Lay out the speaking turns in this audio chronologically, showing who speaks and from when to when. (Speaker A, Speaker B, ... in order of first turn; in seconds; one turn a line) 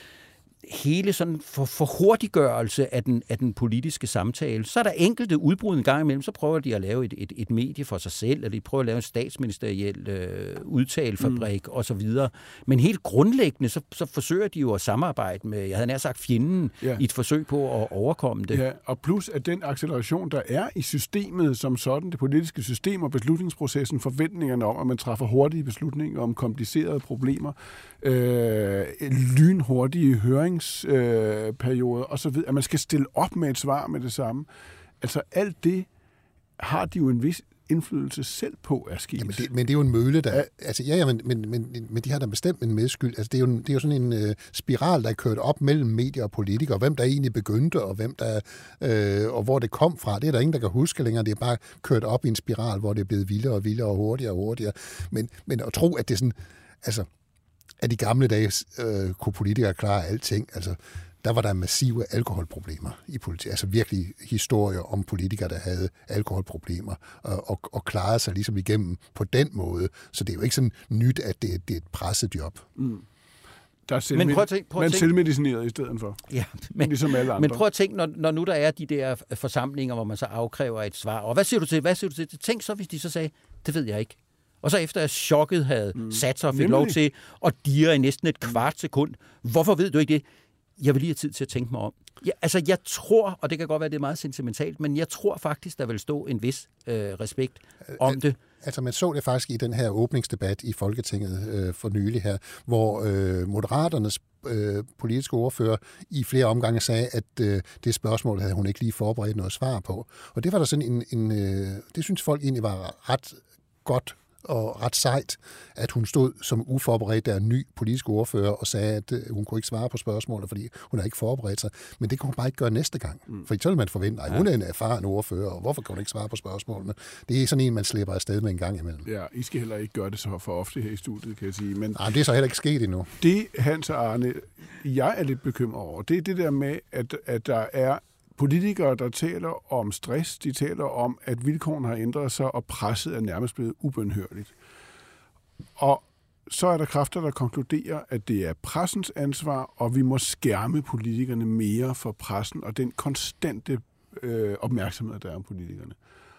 Speaker A: 0.6-18.6
Speaker B: 11.2-11.4
Speaker B: 18.5-34.5
Speaker B: 35.0-35.9
Speaker B: 36.6-39.5
Speaker C: 39.2-57.1
Speaker C: 57.8-72.7
Speaker B: 72.8-73.0
Speaker B: 73.9-76.2
Speaker A: 74.1-75.1
Speaker A: 76.3-90.2
Speaker B: 76.8-77.6
Speaker B: 86.0-87.0
Speaker A: 90.8-98.4
Speaker C: 97.9-129.1
Speaker B: 129.0-132.1
Speaker C: 131.9-133.2
Speaker B: 133.2-144.5
Speaker B: 145.8-155.9